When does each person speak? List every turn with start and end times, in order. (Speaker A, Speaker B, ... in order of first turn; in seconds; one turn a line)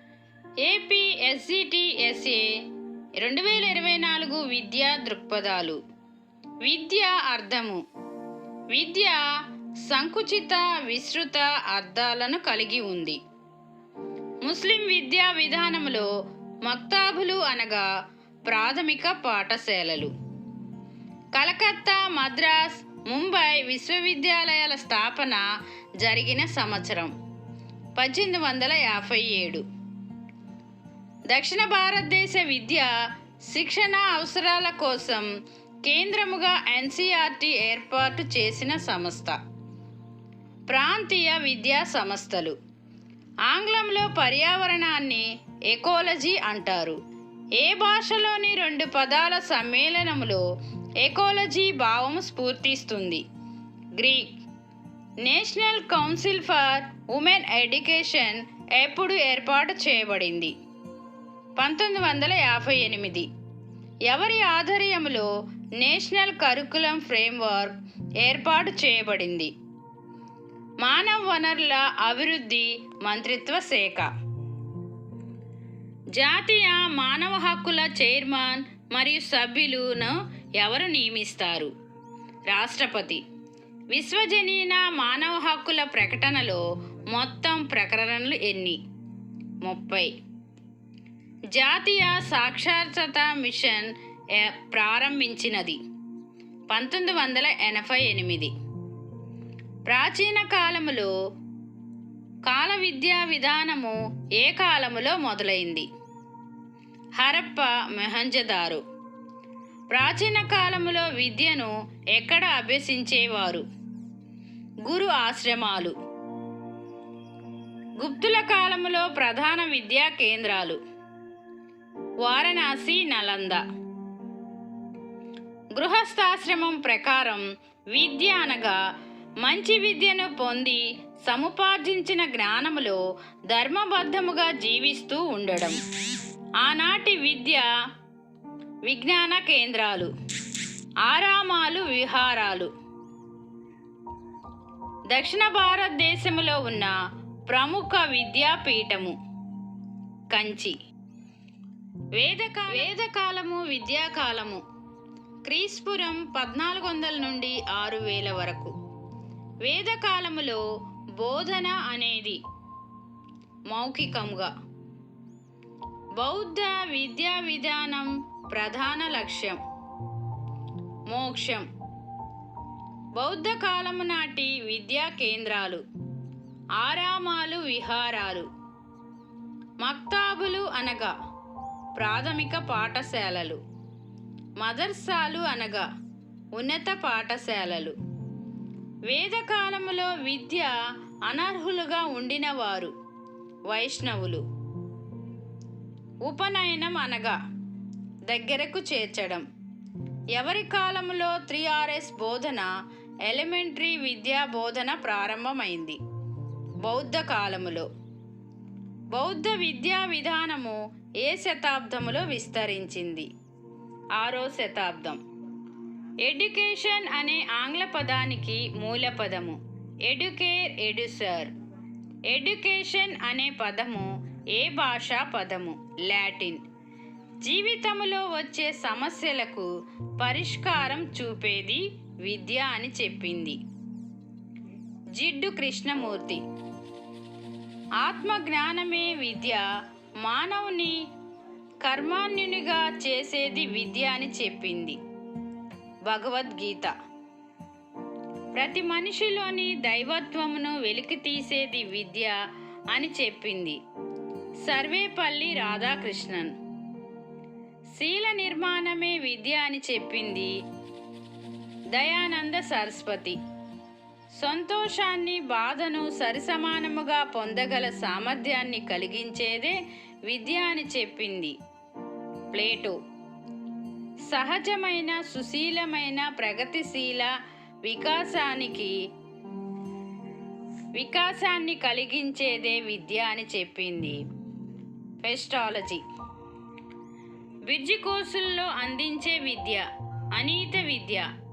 Speaker A: 0.6-2.5
Speaker A: 3.2-5.8
Speaker A: 6.6-7.8
Speaker A: 8.7-9.2
Speaker A: 9.8-13.2
Speaker A: 14.4-16.1
Speaker A: 16.6-17.9
Speaker A: 18.5-20.1
Speaker A: 21.3-25.4
Speaker A: 26.0-27.1
Speaker A: 27.9-29.6
Speaker A: 31.3-32.9
Speaker A: 33.5-35.3
Speaker A: 35.8-39.4
Speaker A: 40.7-42.5
Speaker A: 43.5-47.0
Speaker A: 47.5-50.4
Speaker A: 51.0-53.2
Speaker A: 54.0-54.4
Speaker A: 55.2-60.5
Speaker A: 61.5-63.3
Speaker A: 64.1-69.5
Speaker A: 70.8-74.1
Speaker A: 76.1-81.7
Speaker A: 82.5-83.2
Speaker A: 83.9-88.8
Speaker A: 89.6-90.1
Speaker A: 91.5-95.8
Speaker A: 96.7-98.5
Speaker A: 99.9-101.1
Speaker A: 102.5-105.8
Speaker A: 107.2-108.8
Speaker A: 109.9-113.6
Speaker A: 114.8-115.9
Speaker A: 118.0-120.8
Speaker A: 122.2-123.6
Speaker A: 125.7-128.8
Speaker A: 129.4-135.8
Speaker A: 136.6-137.7
Speaker A: 138.8-140.1
Speaker A: 141.0-142.7
Speaker A: 145.1-146.9
Speaker A: 147.5-149.2
Speaker A: 150.3-150.7
Speaker A: 152.1-154.6
Speaker A: 155.4-158.7
Speaker A: 159.6-160.6
Speaker A: 161.2-162.4
Speaker A: 163.7-164.5
Speaker A: 166.2-169.6
Speaker A: 171.1-171.7
Speaker A: 173.2-175.8
Speaker A: 176.8-178.5
Speaker A: 179.8-181.1
Speaker A: 181.9-183.6
Speaker A: 184.6-185.9
Speaker A: 186.5-187.9
Speaker A: 189.1-190.8
Speaker A: 191.3-192.9
Speaker A: 193.7-194.4
Speaker A: 196.2-197.4
Speaker A: 198.3-199.4
Speaker A: 200.3-202.7
Speaker A: 203.2-206.0
Speaker A: 206.8-207.9
Speaker A: 209.1-213.3
Speaker A: 214.2-215.2
Speaker A: 216.2-221.5
Speaker A: 222.3-226.6
Speaker A: 227.4-233.6
Speaker A: 235.1-236.4
Speaker A: 238.0-239.6
Speaker A: 240.2-241.0
Speaker A: 241.8-245.0
Speaker A: 246.1-246.9
Speaker A: 248.5-252.4
Speaker A: 252.9-253.8
Speaker A: 254.6-256.5
Speaker A: 257.9-260.6
Speaker A: 261.9-263.4
Speaker A: 264.4-271.6
Speaker A: 272.5-273.0
Speaker A: 274.3-277.3
Speaker A: 277.8-279.0
Speaker A: 280.9-284.2
Speaker A: 285.2-286.0
Speaker A: 287.6-291.3